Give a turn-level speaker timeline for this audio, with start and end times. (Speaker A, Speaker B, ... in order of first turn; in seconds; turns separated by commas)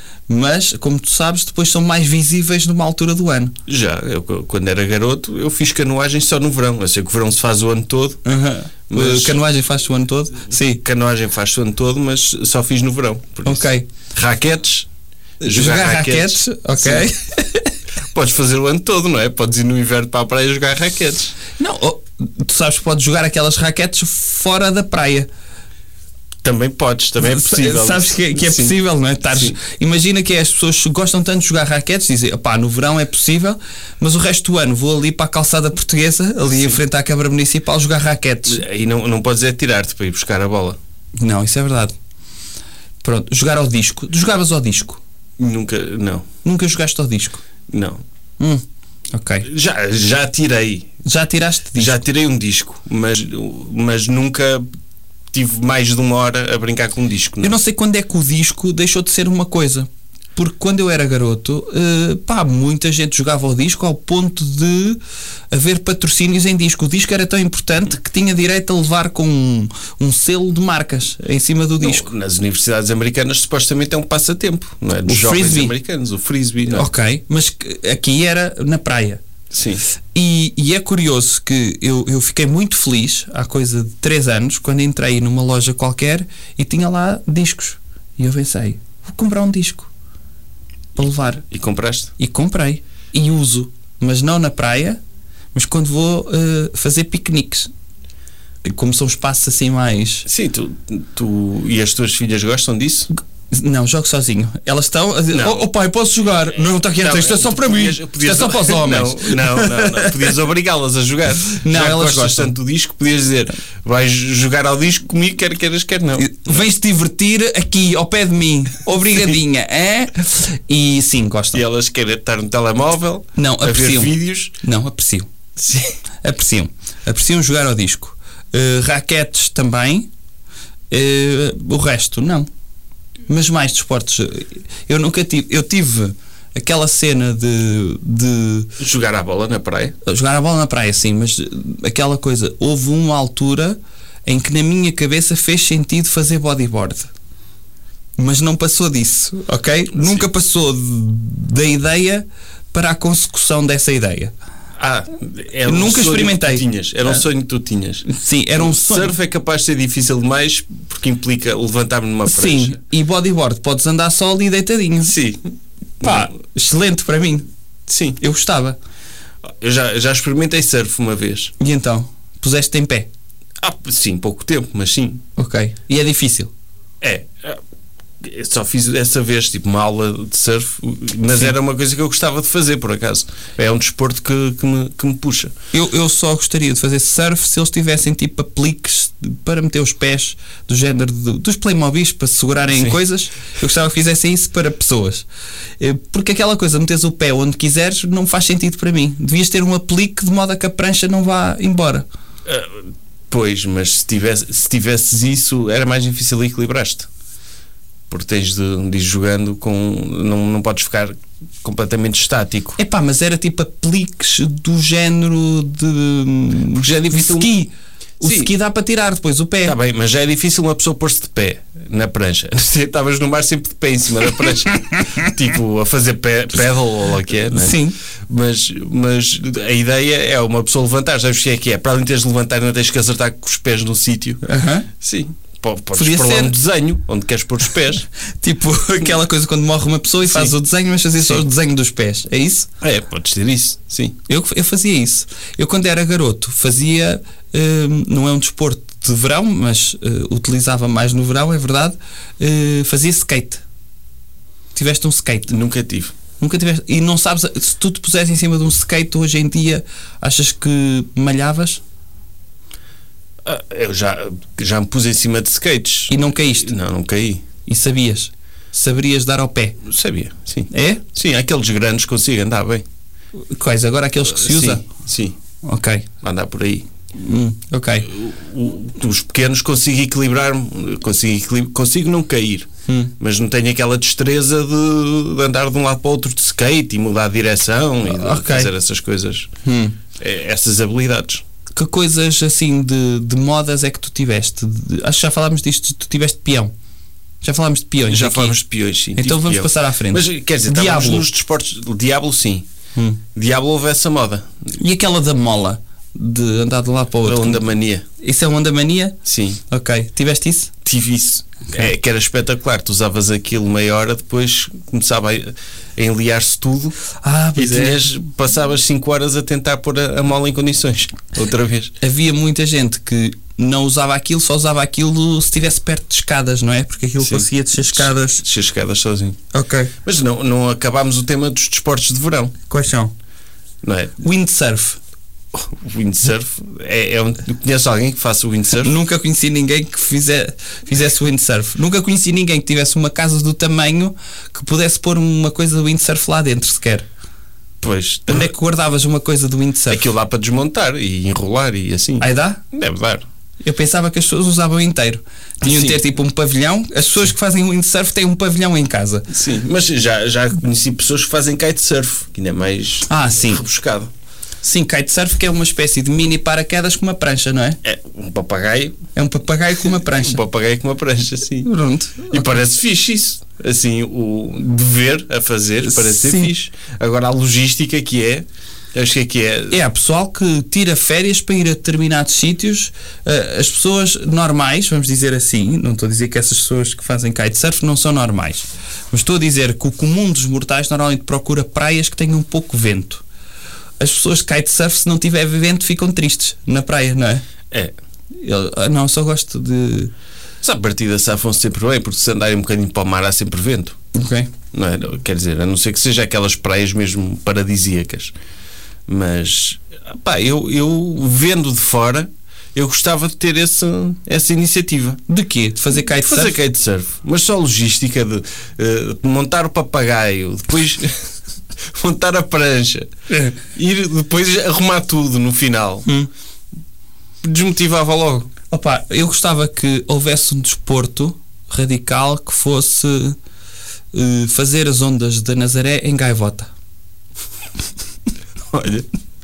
Speaker A: 0.3-3.5, Speaker B: 3.7-8.2, Speaker A: 8.2-10.8, Speaker B: 8.9-9.4, Speaker B: 10.6-14.9, Speaker A: 13.4-13.9, Speaker B: 15.4-17.1, Speaker A: 15.4-17.7, Speaker B: 18.1-21.4, Speaker A: 21.6-25.3, Speaker B: 26.4-28.8, Speaker A: 27.2-38.6, Speaker B: 29.3-29.6, Speaker B: 36.5-36.8, Speaker B: 38.5-40.8, Speaker A: 41.2-41.9, Speaker A: 43.0-45.0, Speaker B: 45.4-46.3, Speaker A: 46.4-47.4, Speaker B: 47.7-48.0, Speaker A: 48.4-49.5, Speaker B: 49.5-50.9, Speaker A: 51.0-52.0, Speaker B: 51.8-54.7, Speaker B: 55.3-57.6, Speaker A: 57.4-65.0, Speaker A: 65.5-72.1, Speaker B: 71.8-76.9, Speaker A: 75.1-75.8, Speaker A: 76.7-79.2, Speaker B: 79.5-79.8, Speaker A: 80.1-89.9, Speaker A: 91.0-91.5, Speaker B: 91.5-92.1, Speaker A: 92.2-95.0, Speaker A: 95.5-97.7, Speaker A: 98.6-100.3, Speaker B: 100.3-103.1, Speaker A: 103.5-110.1, Speaker B: 105.3-105.7, Speaker B: 107.0-116.6, Speaker A: 111.6-112.5, Speaker A: 116.2-121.6, Speaker B: 121.5-124.5, Speaker A: 123.4-125.3, Speaker B: 125.6-126.0, Speaker A: 126.2-130.1, Speaker A: 130.9-132.5, Speaker A: 133.3-138.7, Speaker B: 138.8-139.9, Speaker A: 140.0-147.1, Speaker A: 148.2-154.3, Speaker B: 149.9-150.3, Speaker B: 154.8-162.8, Speaker A: 155.7-157.2, Speaker A: 158.1-159.1, Speaker A: 162.2-165.1, Speaker B: 165.1-165.4, Speaker A: 166.0-167.4, Speaker B: 167.9-168.2, Speaker A: 168.2-168.8, Speaker B: 169.4-171.5, Speaker A: 171.6-173.1, Speaker B: 173.6-175.2, Speaker A: 175.4-176.5, Speaker B: 177.0-177.6, Speaker B: 178.2-185.5, Speaker A: 185.7-195.3, Speaker B: 192.7-193.0, Speaker A: 195.8-202.1, Speaker B: 202.5-207.1, Speaker B: 208.1-212.8, Speaker A: 212.8-219.8, Speaker B: 216.8-217.5, Speaker B: 218.2-218.5, Speaker B: 219.7-227.8, Speaker A: 227.5-228.0, Speaker B: 228.3-234.4, Speaker A: 234.4-234.9, Speaker B: 235.0-238.1, Speaker A: 236.0-236.6, Speaker A: 238.4-242.7, Speaker B: 240.3-240.6, Speaker B: 242.8-244.2, Speaker A: 244.3-253.6, Speaker A: 254.8-255.6, Speaker B: 255.5-256.1, Speaker A: 256.4-261.8, Speaker B: 263.4-267.4, Speaker A: 266.1-266.7, Speaker A: 267.6-269.8, Speaker B: 269.8-272.8, Speaker A: 270.7-271.0, Speaker A: 273.5-274.9, Speaker B: 274.3-275.4, Speaker A: 275.6-276.1, Speaker B: 276.2-276.9, Speaker A: 277.2-278.1, Speaker B: 278.1-282.7, Speaker A: 282.9-283.1, Speaker B: 283.2-289.5, Speaker A: 288.1-288.7, Speaker A: 289.6-290.0, Speaker B: 290.2-291.4, Speaker A: 291.7-296.7, Speaker A: 297.4-298.6, Speaker B: 298.1-302.6, Speaker A: 299.1-301.3, Speaker A: 302.9-303.2, Speaker B: 303.4-304.5, Speaker A: 304.8-307.6, Speaker B: 307.2-308.1, Speaker A: 308.2-309.1, Speaker B: 309.2-309.6, Speaker A: 309.7-310.7, Speaker B: 310.9-317.0, Speaker A: 317.2-318.1, Speaker B: 317.6-321.9, Speaker A: 322.0-328.4, Speaker B: 327.2-329.4, Speaker A: 329.5-329.9, Speaker B: 330.0-332.5, Speaker A: 332.7-333.1, Speaker B: 333.8-334.2, Speaker A: 334.2-335.0, Speaker B: 335.5-338.9, Speaker A: 338.8-347.1, Speaker B: 347.8-348.5, Speaker A: 348.3-350.0, Speaker B: 349.9-353.2, Speaker A: 352.2-352.6, Speaker A: 353.6-359.3, Speaker B: 355.6-356.0, Speaker B: 359.3-364.1, Speaker A: 363.1-363.6, Speaker A: 364.6-367.8, Speaker B: 367.8-369.0, Speaker A: 369.1-370.4, Speaker B: 370.0-371.7, Speaker A: 371.6-372.6, Speaker B: 372.3-379.8, Speaker A: 375.8-376.5, Speaker A: 379.7-393.2, Speaker A: 394.0-397.5, Speaker A: 398.4-400.1, Speaker B: 400.6-404.0, Speaker A: 404.1-404.5, Speaker B: 404.7-408.3, Speaker B: 409.1-415.2, Speaker A: 415.3-416.6, Speaker B: 415.9-421.2, Speaker B: 421.9-423.1, Speaker A: 423.3-423.6, Speaker B: 423.7-426.1, Speaker B: 427.4-428.5, Speaker A: 428.7-433.4, Speaker A: 434.1-436.7, Speaker B: 438.7-439.1